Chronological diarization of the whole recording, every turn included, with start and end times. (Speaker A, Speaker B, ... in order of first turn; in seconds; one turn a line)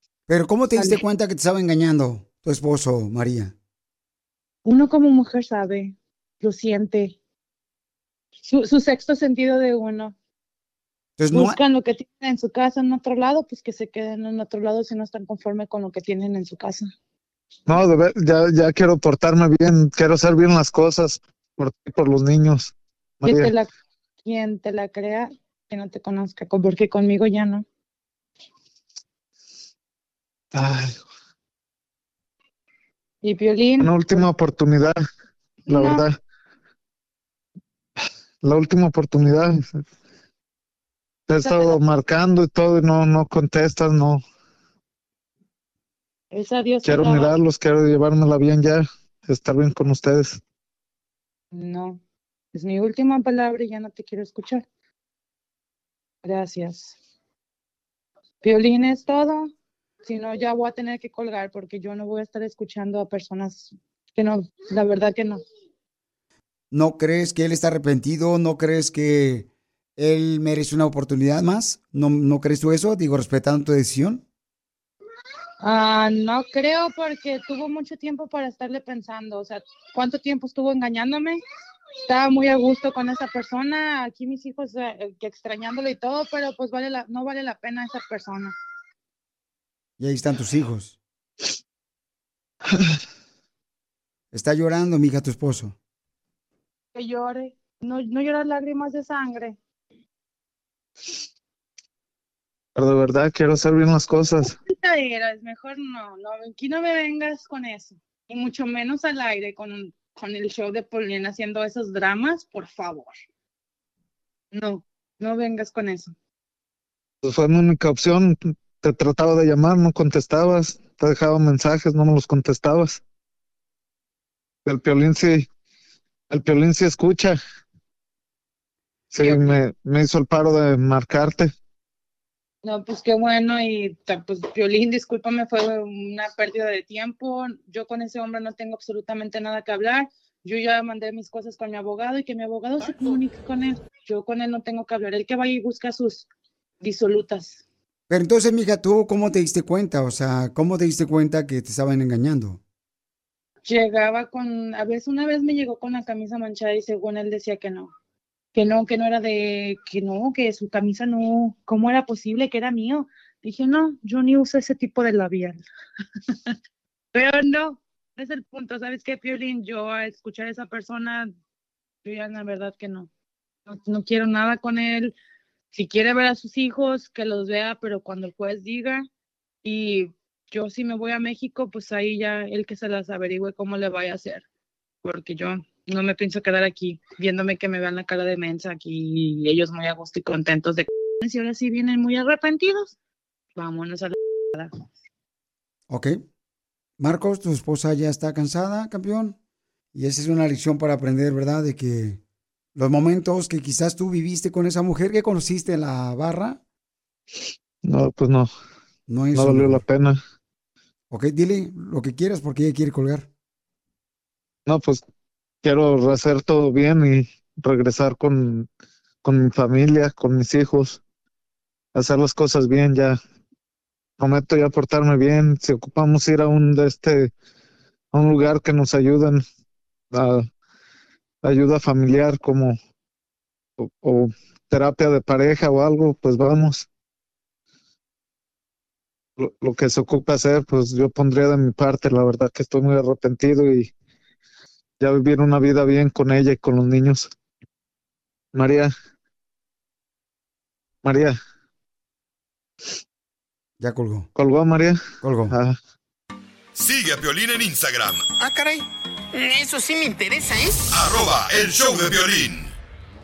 Speaker A: 0.3-3.5
Speaker B: 0.8-1.0
Speaker B: 4.6-7.2
Speaker B: 8.4-10.1
Speaker A: 11.2-11.6
Speaker B: 11.3-16.9
Speaker C: 17.7-23.5
Speaker B: 23.2-23.7
Speaker B: 24.2-27.6
Speaker C: 30.5-30.9
Speaker B: 33.2-34.3
Speaker C: 33.8-35.0
Speaker B: 35.7-36.0
Speaker C: 35.7-36.1
Speaker C: 38.4-39.6
Speaker C: 41.3-44.2
Speaker B: 41.4-41.8
Speaker B: 46.3-47.3
Speaker C: 46.8-50.4
Speaker B: 51.5-52.0
Speaker B: 52.5-54.6
Speaker B: 56.2-57.0
Speaker B: 58.4-59.5
Speaker B: 60.0-65.4
Speaker A: 66.7-69.5
Speaker A: 70.0-74.2
Speaker B: 75.6-81.4
Speaker B: 82.1-88.5
Speaker A: 90.0-90.9
Speaker A: 94.3-95.7
Speaker B: 96.9-99.6
Speaker C: 102.8-104.5
Speaker B: 104.7-113.2
Speaker B: 114.5-116.1
Speaker C: 117.2-123.0
Speaker C: 124.7-125.5
Speaker C: 126.3-127.4
Speaker C: 129.1-131.5
Speaker B: 132.6-146.3
Speaker B: 146.8-147.6
Speaker A: 148.1-152.6
Speaker B: 153.7-157.9
Speaker B: 158.5-165.6
Speaker B: 167.1-171.3
Speaker B: 172.0-173.1
Speaker B: 173.7-175.1
Speaker B: 175.7-179.1
Speaker B: 179.6-184.4
Speaker B: 185.0-192.9
Speaker B: 193.6-194.7
Speaker A: 195.9-196.2
Speaker A: 197.0-199.3
Speaker A: 199.9-202.2
Speaker A: 202.7-206.6
Speaker C: 207.8-208.5
Speaker A: 209.1-209.8
Speaker C: 209.3-210.2
Speaker A: 211.1-213.3
Speaker C: 214.7-215.0
Speaker C: 215.6-218.7
Speaker C: 219.2-221.0
Speaker C: 221.9-223.2
Speaker C: 224.2-227.3
Speaker C: 228.1-229.4
Speaker C: 230.1-230.5
Speaker C: 231.4-232.8
Speaker C: 233.8-236.9
Speaker C: 239.4-243.9
Speaker C: 245.0-247.3
Speaker C: 248.5-248.9
Speaker C: 251.0-251.4
Speaker A: 253.8-254.3
Speaker C: 254.3-255.8
Speaker A: 255.2-255.5
Speaker D: 256.8-258.2
Speaker E: 258.4-260.9
Speaker D: 260.9-262.7